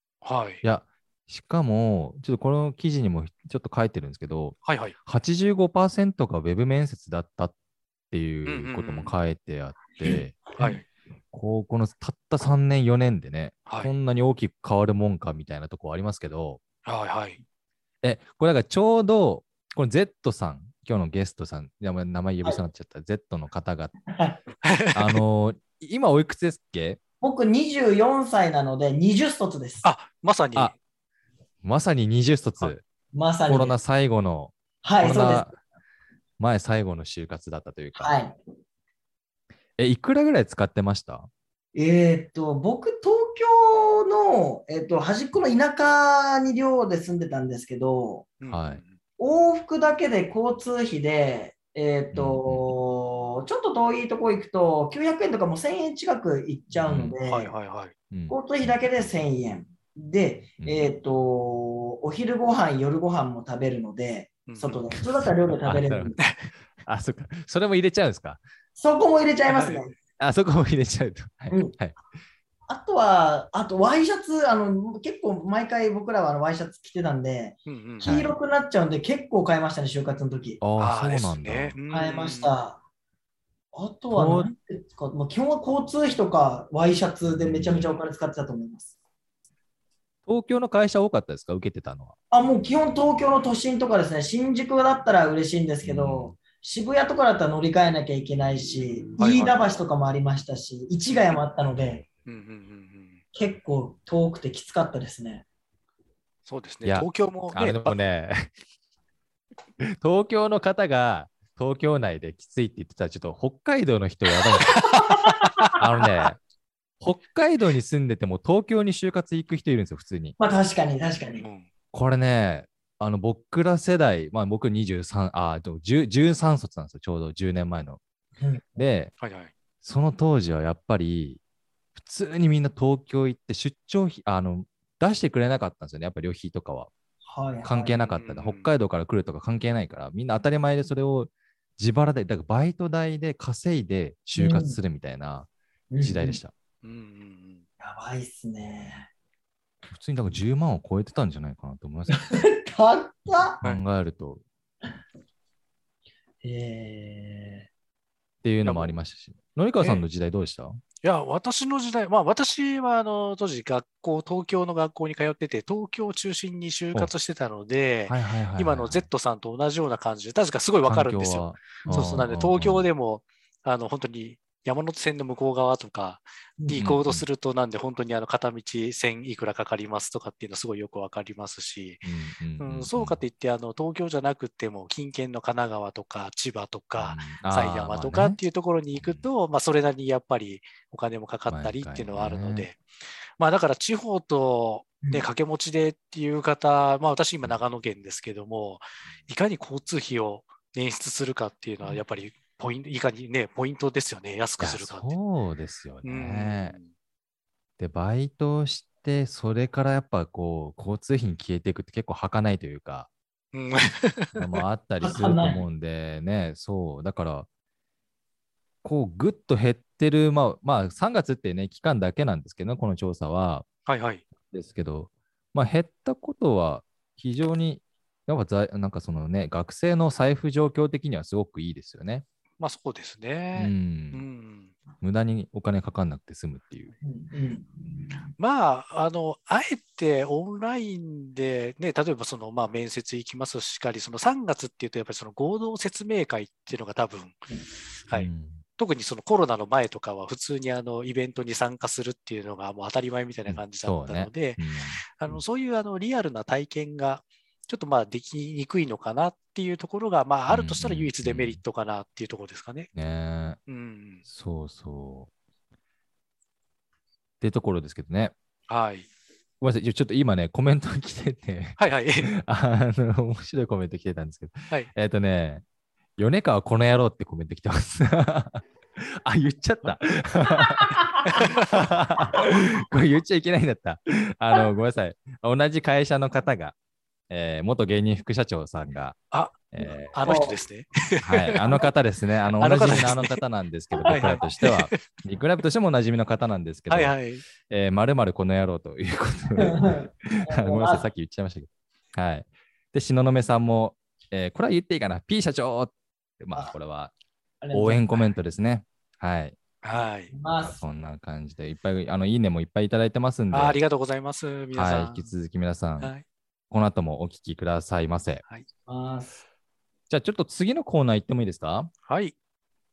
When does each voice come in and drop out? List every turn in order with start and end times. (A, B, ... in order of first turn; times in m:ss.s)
0:00.2-0:00.6 A
0:00.6-0:07.5 B
0:04.6-0:05.0 A
0:08.1-0:10.7 B
0:08.4-0:09.1 A
0:10.1-0:10.8 A
0:11.3-0:16.6 B
0:13.6-0:13.9 A
0:16.8-0:17.4 A
0:18.0-0:24.0 B
0:24.1-0:24.4 C
0:24.6-0:25.2 A
0:24.9-0:27.0 B
0:27.2-0:29.9 C
0:29.8-0:30.8 A
0:31.6-0:32.8 B
0:33.1-0:33.8 C
0:33.5-0:35.6 B
0:34.8-0:35.5 C
0:36.4-0:38.1 B
0:38.0-0:38.4 C
0:39.8-0:41.3 B
0:41.7-0:48.3 C
0:48.4-0:49.0 A
0:48.5-0:48.8 B
0:49.2-0:57.5 C
0:52.1-0:52.7 B
0:56.8-0:57.1 B
0:57.2-0:57.9 A
0:58.1-0:58.7 B
0:58.3-1:06.2 C
1:00.6-1:00.9 B
1:04.5-1:04.8 A
1:04.9-1:06.2 B
1:06.2-1:06.5 A
1:06.8-1:08.4 B
1:08.8-1:09.9 C
1:09.5-1:09.8 A
1:10.2-1:12.0 B
1:11.5-1:11.8 C
1:12.7-1:20.6 C
1:17.6-1:18.1 A
1:18.0-1:18.3 B
1:20.6-1:21.8 B
1:20.8-1:22.5 A
1:21.9-1:22.8 C
1:23.7-1:28.9 C
1:24.1-1:24.5 B
1:27.3-1:27.9 B
1:30.2-1:32.1 B
1:32.3-1:42.0 C
1:35.8-1:36.3 B
1:39.2-1:39.6 A
1:42.2-1:43.2 A
1:43.3-1:45.4 C
1:46.4-1:48.0 A
1:46.8-1:48.5 B
1:49.8-1:54.9 B
1:54.8-1:55.8 A
1:55.0-1:55.7 C
1:55.8-1:56.4 B
1:57.0-2:00.4 B
2:00.4-2:01.4 C
2:01.4-2:01.7 A
2:01.9-2:08.0 B
2:08.4-2:08.6 C
2:08.8-2:09.1 B
2:09.2-2:09.5 A
2:09.8-2:11.4 B
2:12.0-2:16.9 B
2:17.2-2:18.0 C
2:17.6-2:25.5 B
2:18.0-2:18.7 A
2:24.4-2:24.8 C
2:25.9-2:26.4 C
2:26.0-2:26.5 B
2:26.8-2:27.6 A
2:27.8-2:29.1 C
2:29.9-2:32.2 B
2:32.1-2:33.6 C
2:33.6-2:34.4 B
2:36.4-2:37.7 C
2:38.4-2:40.8 B
2:38.6-2:38.9 A
2:41.0-3:02.0 A
2:48.1-2:49.1 B
2:50.9-2:52.8 B
2:51.8-2:52.2 C
2:56.6-2:56.9 C
2:56.8-2:57.2 B
3:02.0-3:03.2 B
3:02.6-3:25.1 A
3:07.0-3:08.4 B
3:08.9-3:09.2 B
3:11.5-3:12.7 B
3:15.0-3:15.2 C
3:24.6-3:26.8 B
3:26.0-3:26.9 A
3:27.8-3:33.1 B
3:33.5-3:34.5 A
3:34.3-3:37.5 B
3:35.0-3:35.6 C
3:38.8-3:43.7 B
3:43.9-3:44.2 A
3:44.5-3:52.2 B
3:52.6-3:54.7 A
3:53.5-3:54.2 B
3:55.0-3:56.9 B
3:57.0-3:58.1 C
3:58.4-4:07.5 A
4:08.1-4:22.9 A
4:08.1-4:08.6 B
4:13.5-4:15.4 B
4:20.5-4:21.6 B
4:22.9-4:23.6 B
4:23.7-4:24.2 A
4:24.2-4:25.3 B
4:27.4-4:28.3 B
4:28.7-4:29.1 A
4:29.6-4:35.6 B
4:31.8-4:32.3 A
4:36.2-4:46.8 B
4:41.3-4:41.6 A
4:47.3-4:50.4 B
4:49.3-4:51.9 A
4:50.2-4:50.6 C
4:51.2-5:07.1 B
4:52.6-4:53.4 A
4:53.9-4:54.4 C
4:54.0-4:55.0 A
4:56.9-4:57.4 A
4:59.6-5:01.0 C
5:07.6-5:08.3 C
5:07.7-5:09.6 B
5:09.8-5:10.3 A
5:10.3-5:10.8 C
5:10.6-5:13.8 B
5:13.5-5:15.3 A
5:14.7-5:16.1 B
5:16.7-5:18.4 B
5:18.9-5:19.4 C
5:20.1-5:21.9 B
5:22.0-5:22.4 A